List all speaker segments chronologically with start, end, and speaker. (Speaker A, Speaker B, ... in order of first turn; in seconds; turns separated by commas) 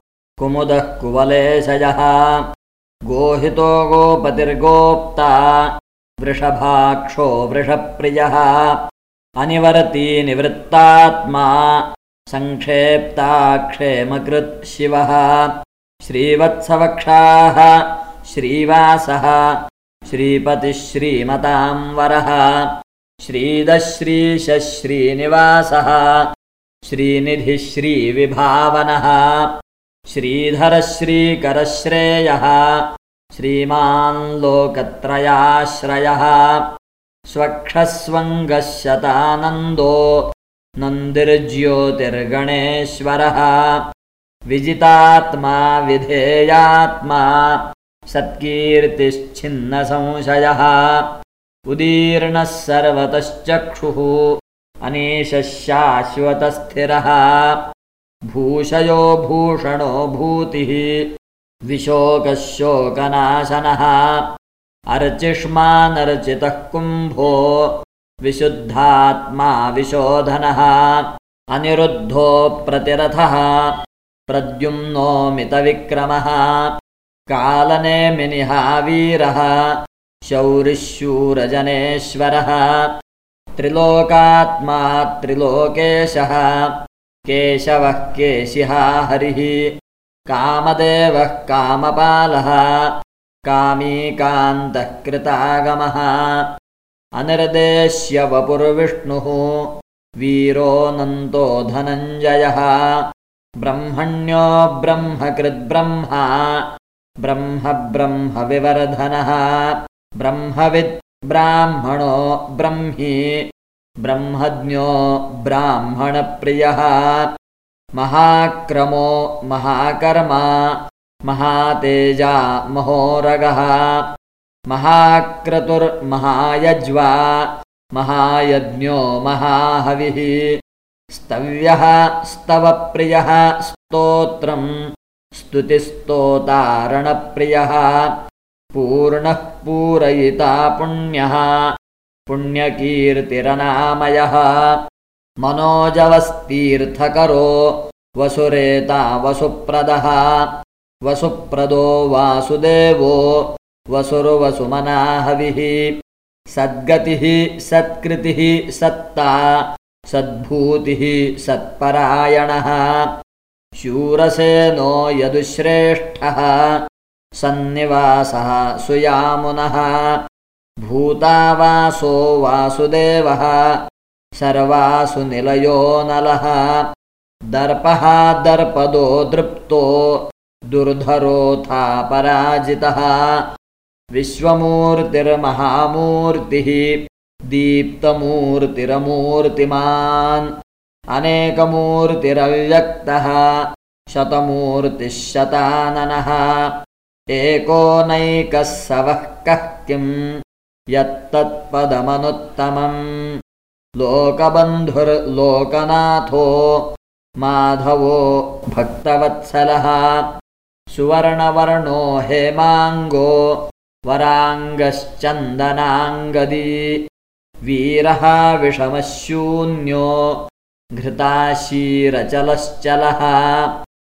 Speaker A: 0.4-2.4, Speaker A: 3.1-8.8, Speaker A: 9.4-15.5, Speaker A: 16.0-19.6, Speaker A: 20.1-22.7, Speaker A: 23.2-26.2, Speaker A: 26.8-29.5, Speaker A: 30.1-36.6, Speaker A: 37.3-40.2, Speaker A: 40.8-43.8, Speaker A: 44.5-51.1, Speaker A: 51.7-57.6, Speaker A: 58.3-61.0, Speaker A: 61.7-64.2, Speaker A: 64.9-73.7, Speaker A: 74.3-76.7, Speaker A: 77.3-82.9, Speaker A: 83.5-86.7, Speaker A: 87.2-89.7, Speaker A: 90.3-92.9, Speaker A: 93.4-96.5, Speaker A: 97.2-99.7, Speaker A: 100.2-103.0, Speaker A: 103.6-106.7, Speaker A: 107.2-113.5, Speaker A: 114.0-117.3, Speaker A: 118.0-124.0, Speaker A: 124.7-130.5, Speaker A: 131.1-134.8, Speaker A: 135.3-138.1, Speaker A: 138.7-141.7, Speaker A: 142.3-144.8, Speaker A: 145.4-150.5, Speaker A: 151.0-155.9, Speaker A: 156.5-163.1, Speaker A: 163.8-166.8, Speaker A: 167.3-170.2, Speaker A: 170.8-173.8, Speaker A: 174.3-176.8, Speaker A: 177.5-183.4, Speaker A: 184.1-186.9, Speaker A: 187.5-190.5, Speaker A: 191.1-193.6, Speaker A: 194.1-196.7, Speaker A: 197.3-200.3, Speaker A: 200.9-203.3, Speaker A: 204.0-206.9, Speaker A: 207.4-210.2, Speaker A: 210.9-216.9, Speaker A: 217.6-220.4, Speaker A: 220.9-223.7